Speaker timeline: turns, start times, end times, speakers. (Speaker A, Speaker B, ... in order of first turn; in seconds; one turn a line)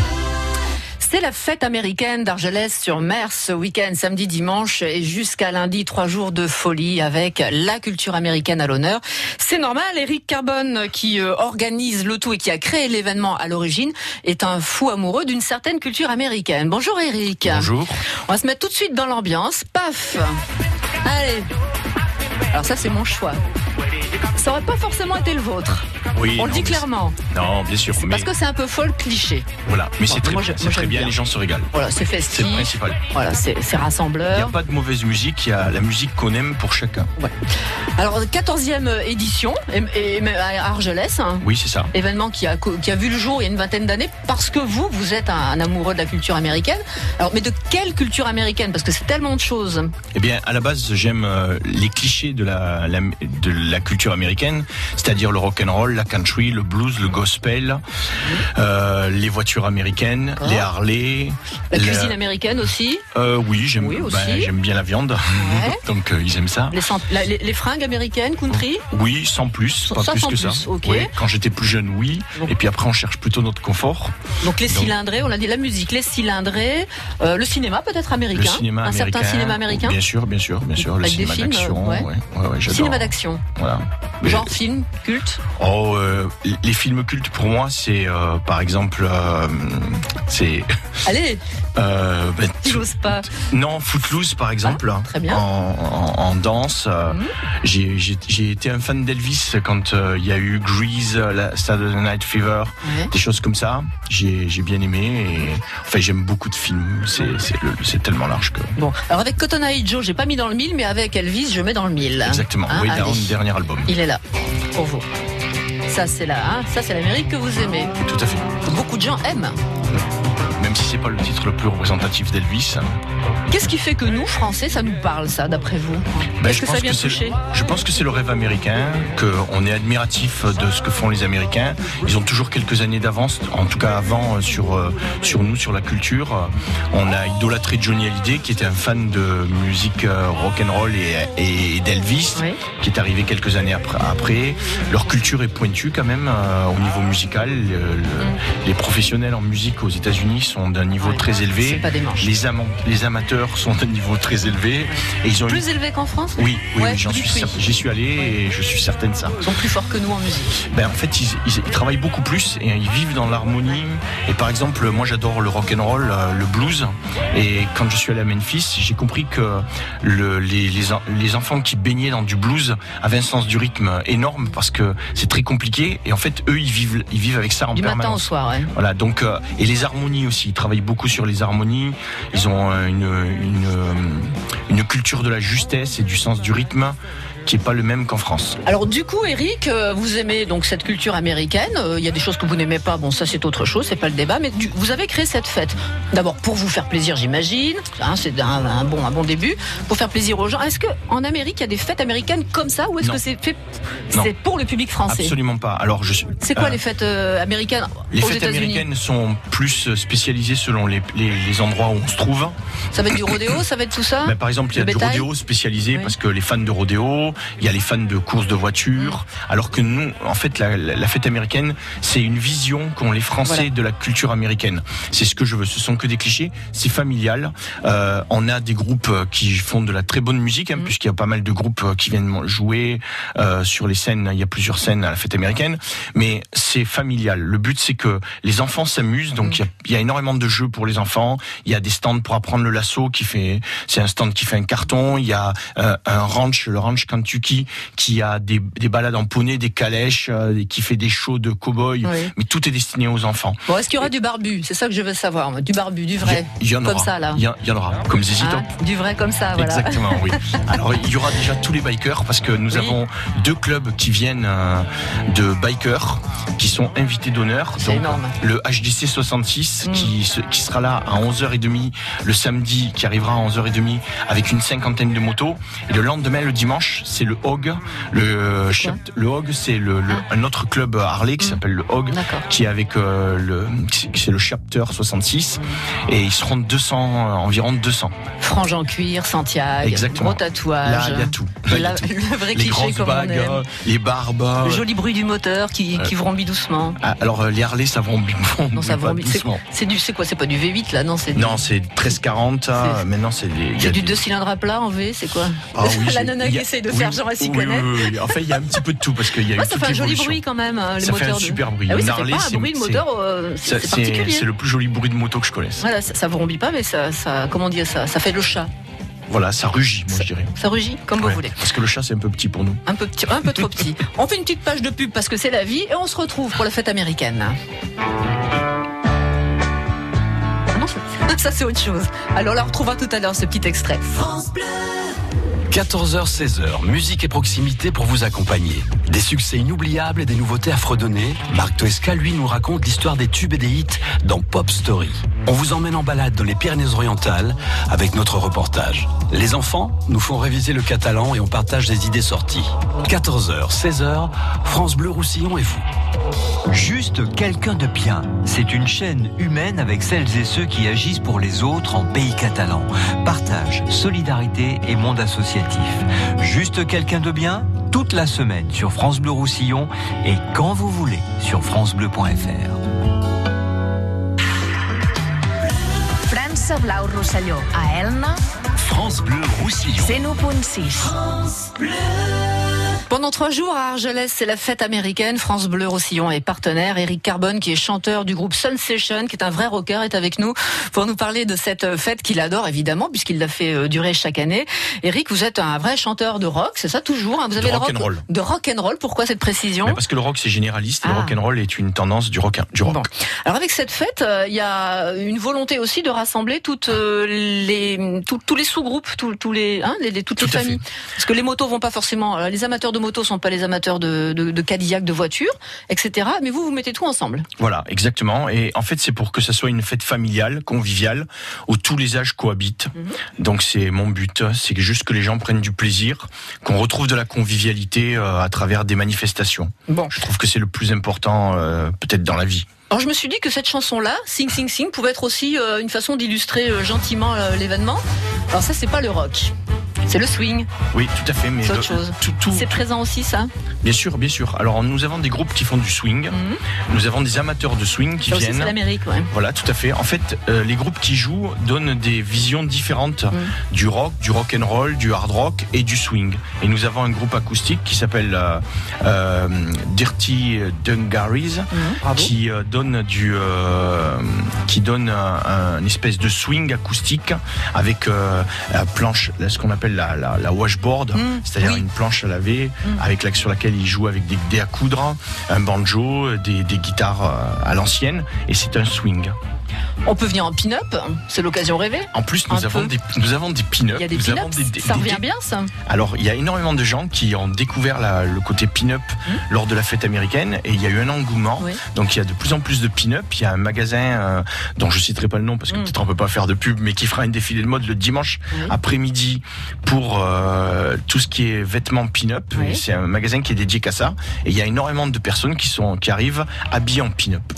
Speaker A: 1.0-17.7
Speaker B: 17.4-18.0
Speaker A: 18.2-20.4
Speaker A: 21.0-21.5
Speaker A: 22.5-23.4
Speaker A: 24.3-25.9
Speaker B: 26.1-28.3
Speaker A: 26.4-27.2
Speaker A: 28.0-29.5
Speaker B: 29.6-31.7
Speaker A: 30.1-31.2
Speaker A: 31.7-34.5
Speaker B: 32.3-33.0
Speaker B: 34.3-37.1
Speaker A: 38.0-49.9
Speaker B: 41.4-41.9
Speaker B: 50.1-57.8
Speaker B: 58.4-62.2
Speaker A: 60.4-60.7
Speaker A: 61.7-63.0
Speaker B: 63.1-66.8
Speaker A: 63.8-64.5
Speaker A: 65.3-65.8
Speaker A: 66.7-68.8
Speaker B: 68.5-74.9
Speaker A: 69.8-71.1
Speaker A: 74.4-80.0
Speaker B: 78.3-84.5
Speaker A: 80.8-82.1
Speaker A: 82.7-83.4
Speaker A: 84.2-85.4
Speaker B: 85.6-90.7
Speaker A: 91.0-91.4
Speaker B: 91.8-108.8
Speaker A: 92.6-93.3
Speaker A: 94.6-95.4
Speaker A: 102.8-103.1
Speaker A: 108.8-113.3
Speaker B: 112.2-113.9
Speaker A: 113.9-114.2
Speaker A: 114.7-115.1
Speaker A: 115.9-118.0
Speaker B: 118.0-118.5
Speaker A: 118.6-119.5
Speaker B: 120.6-122.8
Speaker A: 123.5-127.4
Speaker B: 126.4-155.7
Speaker A: 142.3-142.6
Speaker A: 151.0-152.3
Speaker A: 154.9-157.6
Speaker B: 156.3-159.4
Speaker A: 159.4-160.6
Speaker B: 160.6-188.6
Speaker A: 177.7-178.7
Speaker A: 188.6-205.3
Speaker B: 205.1-206.8
Speaker A: 206.4-208.8
Speaker B: 208.1-212.6
Speaker A: 212.9-215.3
Speaker B: 214.2-254.0
Speaker A: 252.0-252.3
Speaker A: 253.7-257.4
Speaker B: 256.2-258.7
Speaker A: 258.4-260.6
Speaker B: 259.5-288.1
Speaker A: 262.7-263.0
Speaker A: 267.8-268.3
Speaker A: 269.8-270.1
Speaker A: 281.4-282.5
Speaker A: 288.4-293.6
Speaker B: 289.8-294.9
Speaker A: 294.6-297.0
Speaker B: 297.0-299.6
Speaker A: 298.7-301.6
Speaker B: 301.3-304.2
Speaker A: 302.8-303.0
Speaker A: 303.8-308.6
Speaker B: 305.7-310.4
Speaker A: 309.5-314.4
Speaker B: 311.0-313.0
Speaker B: 313.6-315.9
Speaker A: 315.8-318.7
Speaker B: 319.3-320.5
Speaker A: 320.2-321.6
Speaker B: 321.2-322.8
Speaker A: 322.9-327.5
Speaker A: 330.7-334.5
Speaker C: 335.7-355.9
Speaker D: 356.7-372.8
Speaker E: 376.3-378.4
Speaker C: 378.8-380.2
Speaker E: 380.1-381.1
Speaker A: 383.1-400.0
Speaker B: 397.6-398.2
Speaker B: 399.8-403.1
Speaker A: 401.0-401.4
Speaker A: 402.9-417.5
Speaker B: 410.4-410.8
Speaker B: 417.6-432.6
Speaker A: 429.9-430.1
Speaker A: 432.9-439.5
Speaker A: 440.1-440.7
Speaker B: 440.9-442.7
Speaker A: 441.6-443.5
Speaker B: 443.8-446.4
Speaker A: 446.3-446.6
Speaker B: 446.9-448.8
Speaker A: 448.3-449.3
Speaker B: 449.3-479.4
Speaker A: 461.7-462.3
Speaker A: 471.1-471.8
Speaker A: 480.1-482.9
Speaker B: 482.1-485.2
Speaker A: 483.9-485.7
Speaker B: 485.8-507.5
Speaker A: 502.5-502.8